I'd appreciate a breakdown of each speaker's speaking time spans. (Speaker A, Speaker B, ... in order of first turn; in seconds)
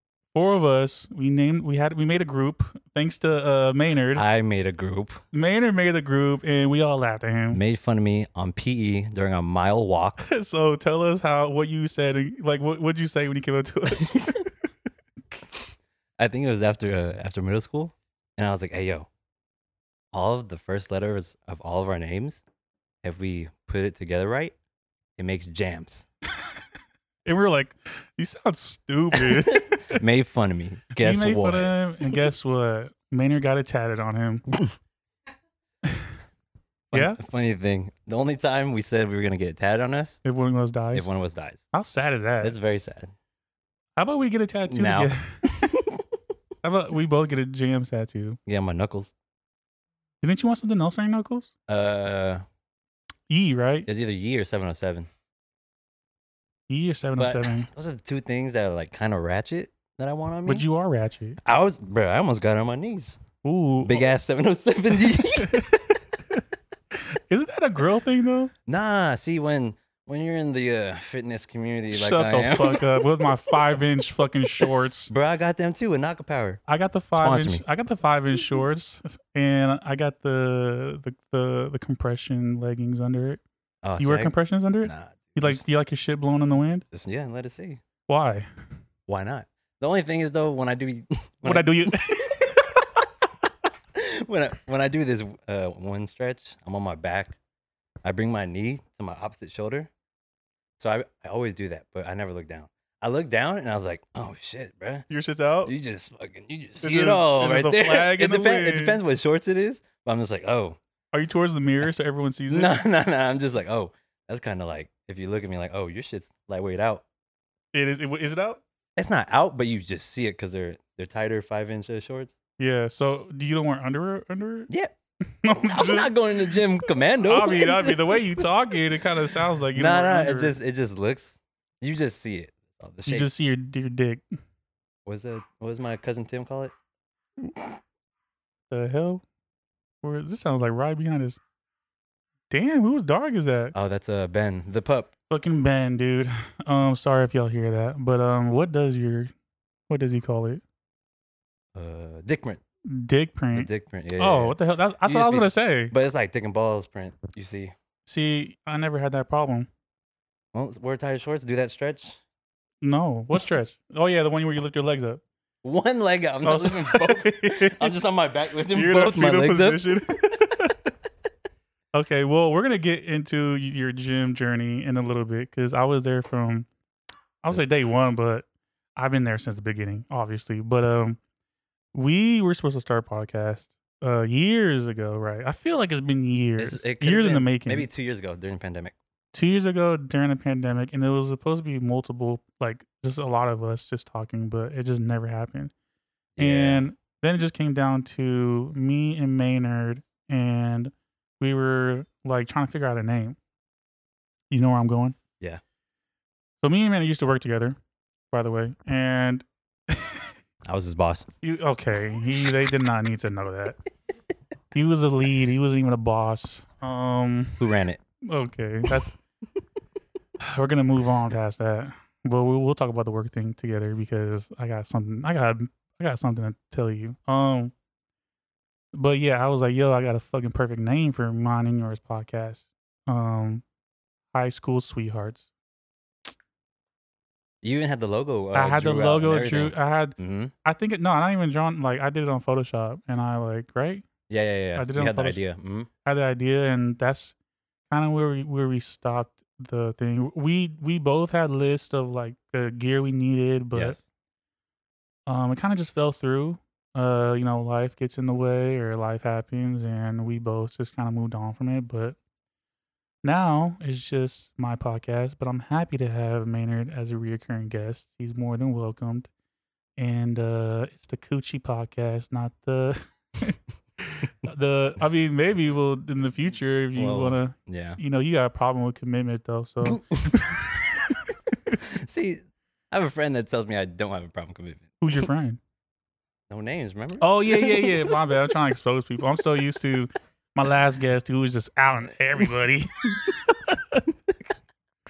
Speaker A: 0.3-4.2, 5.3-7.6, 10.2-14.5, 27.3-30.0, 30.9-34.5, 36.9-37.2, 40.2-41.1, 41.7-42.6, 44.0-45.7, 46.6-48.4, 50.2-51.5, 53.3-53.9, 56.7-57.7, 60.5-61.4, 63.4-64.1, 65.4-66.4, 66.9-68.5, 71.9-75.1, 76.7-83.4, 84.0-86.8, 88.1-88.5, 91.4-92.6, 105.1-105.7, 106.8-109.0, 111.1-112.8, 117.7-118.6, 122.6-124.7, 125.3-126.6, 127.2-130.5, 133.1-134.2, 138.7-139.2, 140.0-141.4, 142.5-143.7, 145.3-149.3, 149.9-150.6, 152.9-155.9, 158.1-159.7, 162.8-165.2, 166.4-168.0, 168.7-170.8, 171.9-176.7, 177.4-178.4, 179.0-181.2, 181.9-187.9, 189.3-195.7, 196.4-203.4, 204.5-205.2, 206.6-207.8, 208.3-210.3, 211.4-213.8, 214.7-217.6, 218.2-219.2, 220.4-227.7, 228.9-233.6, 234.3-235.5, 238.5-244.1, 244.7-245.4, 246.1-247.3, 247.9-254.0, 255.3-262.2, 263.2-269.3, 270.0-281.2, 285.0-285.6, 287.2-294.1
Speaker B: 4.1-5.2, 7.5-10.2, 14.0-14.3, 15.3-19.1, 20.1-22.4, 23.0-24.6, 25.2-26.1, 29.1-31.7, 36.9-40.2, 40.9-41.6, 42.4-43.1, 44.7-46.0, 48.5-49.1, 51.7-52.4, 53.9-55.1, 57.2-60.6, 61.4-63.2, 63.8-65.7, 68.7-73.8, 75.1-76.6, 77.1-77.6, 83.8-85.6, 86.9-87.8, 89.1-93.3, 93.9-97.4, 98.0-99.9, 100.8-105.1, 105.7-110.8, 112.5-117.0, 119.0-122.3, 124.7-124.9, 125.6-128.7, 129.7-133.3, 135.1-136.7, 143.7-145.1, 151.8-152.6, 153.5-157.7, 160.5-162.2, 165.6-170.0, 186.6-188.9, 196.4-196.9, 210.7-211.3, 217.6-218.0, 237.6-240.5, 244.3-245.9, 253.8-254.1, 277.0-278.0, 279.9-280.4, 281.8-285.0, 286.5-288.2